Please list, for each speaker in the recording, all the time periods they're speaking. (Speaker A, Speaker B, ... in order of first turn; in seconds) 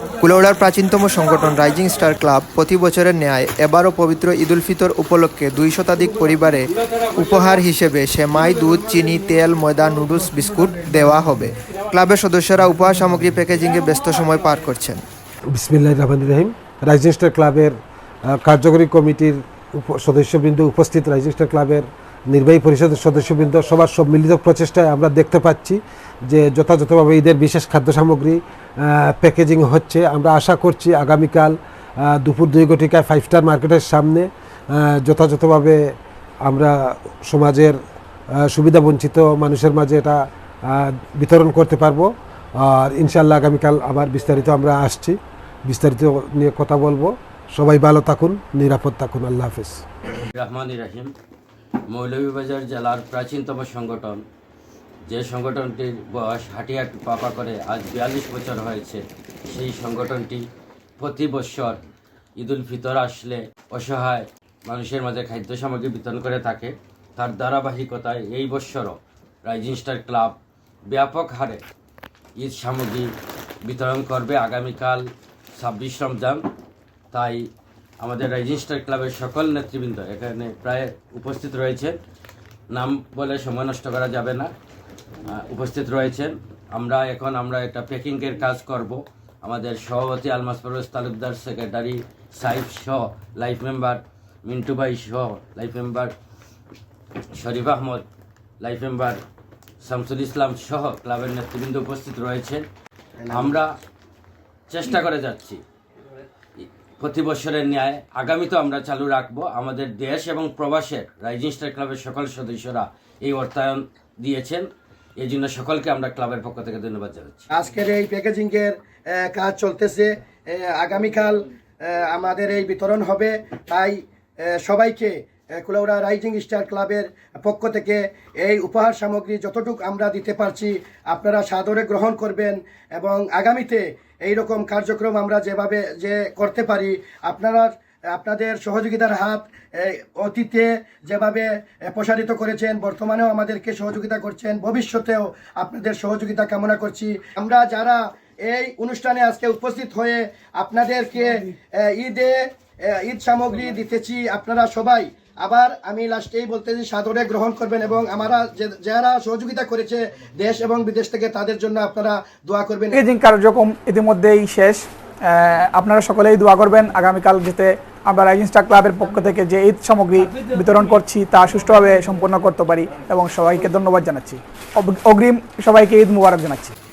Speaker A: 0.2-15.0
Speaker B: 15.5-17.8, 18.3-35.8, 36.5-37.8, 38.4-49.8
Speaker C: 50.3-51.1, 51.9-54.2, 55.1-60.5, 61.0-61.8, 62.4-70.4, 70.9-71.6, 72.4-73.1, 73.7-76.5, 77.1-77.5, 78.0-82.0, 82.7-84.5, 85.3-96.1, 97.3-98.1, 98.6-99.2, 99.8-102.7, 103.3-103.7, 104.7-105.6, 107.0-114.7, 115.2-117.5
Speaker D: 103.2-103.6, 117.5-124.0, 124.5-163.0
Speaker E: 162.9-176.7